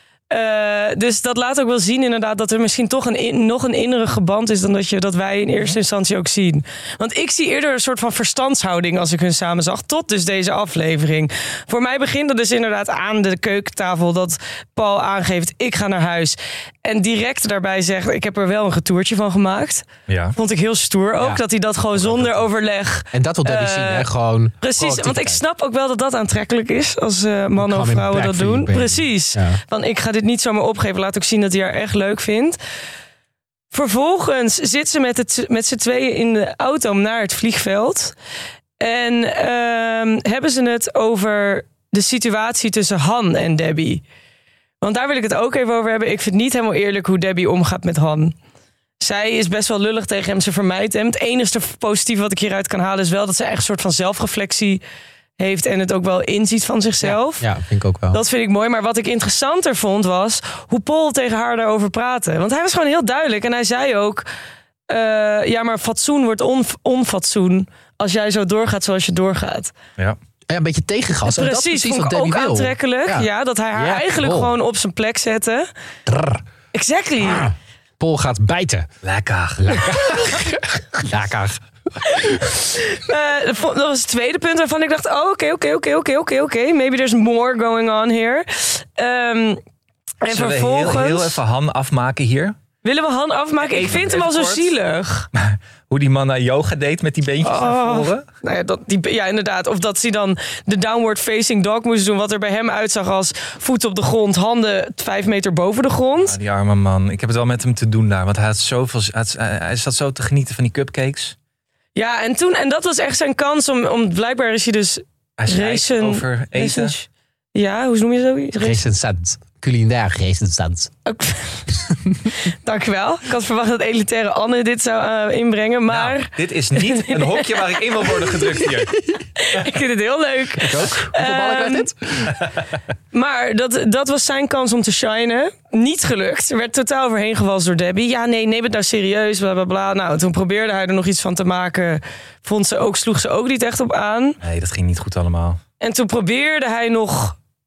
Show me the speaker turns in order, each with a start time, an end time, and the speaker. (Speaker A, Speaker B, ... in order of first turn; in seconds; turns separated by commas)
Speaker A: 0.3-24.1, Speaker B: 20.1-20.4, Speaker B: 22.1-22.4, Speaker C: 23.1-25.4, Speaker A: 24.6-32.6, Speaker C: 27.6-29.6, Speaker A: 33.7-38.1, Speaker A: 38.8-44.0, Speaker A: 44.8-48.3, Speaker A: 49.0-54.8, Speaker A: 55.4-57.5, Speaker C: 57.0-58.2, Speaker A: 58.1-64.2, Speaker A: 64.9-69.7, Speaker C: 70.5-74.5, Speaker A: 71.3-75.7, Speaker C: 76.1-76.4, Speaker A: 76.7-77.5, Speaker C: 77.2-78.9, Speaker B: 79.0-79.8, Speaker C: 79.6-82.5, Speaker A: 82.2-89.6, Speaker A: 90.2-91.4, Speaker B: 90.3-92.6, Speaker A: 92.8-95.3, Speaker B: 93.6-94.7, Speaker B: 95.3-98.2, Speaker A: 97.4-106.4, Speaker B: 106.2-111.4, Speaker A: 112.0-118.8, Speaker B: 115.4-117.0, Speaker C: 118.6-120.9, Speaker A: 121.1-121.7, Speaker C: 121.9-122.3, Speaker A: 122.4-128.3, Speaker B: 125.9-128.9, Speaker A: 129.4-131.9, Speaker C: 130.6-132.4, Speaker A: 133.1-144.4, Speaker B: 144.4-145.6, Speaker A: 145.8-147.4